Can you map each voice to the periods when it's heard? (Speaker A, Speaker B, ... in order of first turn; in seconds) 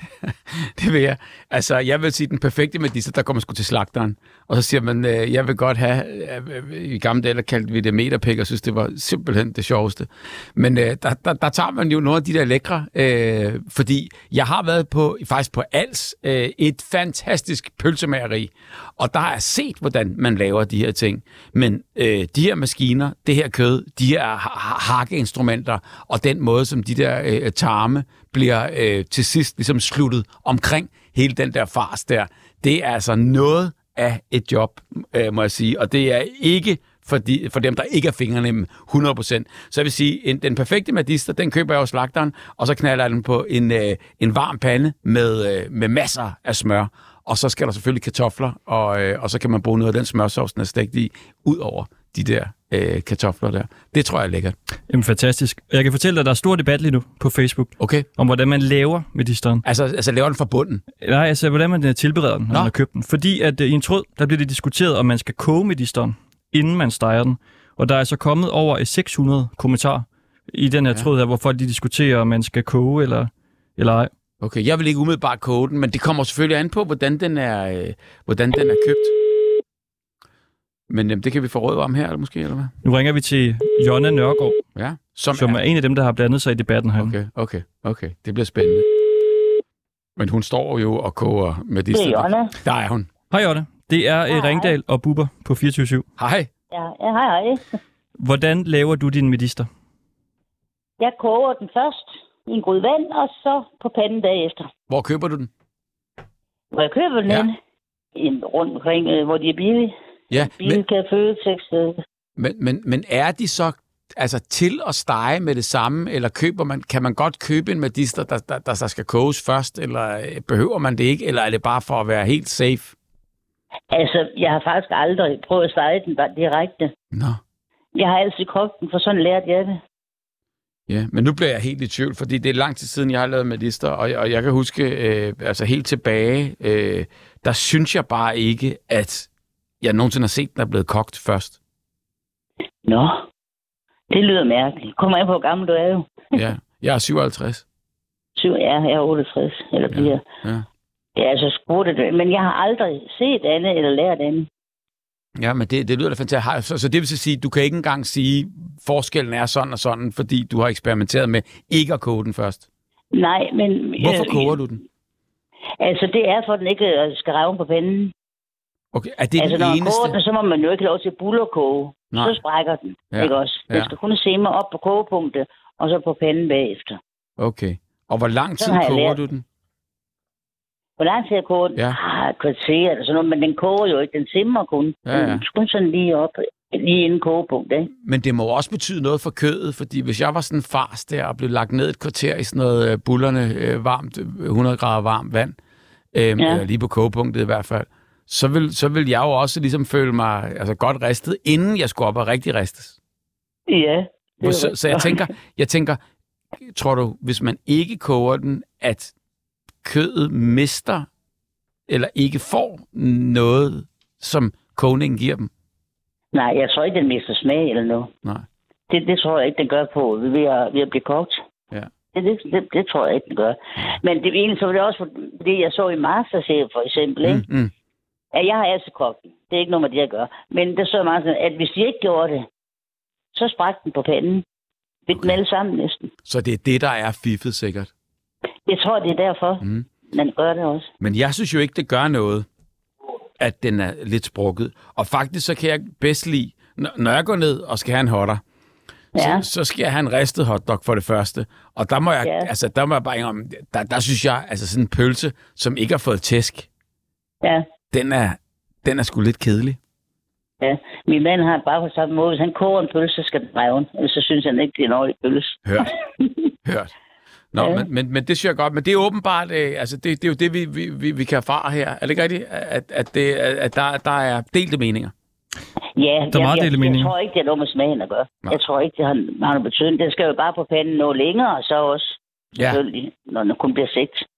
Speaker A: 0.2-54.5, 57.8-58.1, 59.6-60.8, 74.4-79.1, 80.9-82.7, 84.8-85.6, 87.0-88.9, 90.2-93.1, 96.2-96.5, 104.9-105.5, 110.3-110.8, 112.4-122.9, 127.1-127.4, 130.9-139.3, 139.8-141.6, 146.3-147.6, 149.9-150.7, 155.4-162.7, 164.0-164.8, 168.9-170.2, 172.1-172.4, 173.1-173.9, 177.4-179.4, 185.1-185.4, 188.0-195.6, 196.1-203.0, 204.4-206.0, 206.6-209.1, 209.8-211.1, 211.9-215.5, 227.2-227.7, 236.2-237.9, 239.6-239.9, 241.0-242.5, 243.4-248.4, 249.2-256.7, 257.9-259.8, 265.6-265.9, 266.6-266.9, 267.5-275.1, 282.6-282.8
Speaker B: 54.9-59.6, 61.0-74.1, 82.8-84.6, 85.3-87.1, 93.3-96.0, 98.2-99.7, 276.3-277.1
Speaker C: 91.9-92.5, 94.3-94.7, 96.7-97.8, 101.0-104.7, 106.7-107.6, 108.1-112.0, 123.9-126.9, 127.9-129.8, 142.8-143.3, 144.1-146.4, 148.3-150.2, 151.2-154.5, 163.1-164.5, 165.8-168.1, 169.4-177.0, 178.6-179.2, 181.0-187.9, 196.4-196.6, 203.7-205.3, 216.3-218.1, 218.9-221.4, 222.1-227.4, 228.3-232.5, 233.3-234.4, 235.1-236.1, 238.7-240.9, 249.1-249.4, 252.2-252.5, 260.6-266.5, 267.6-267.9, 276.0-284.2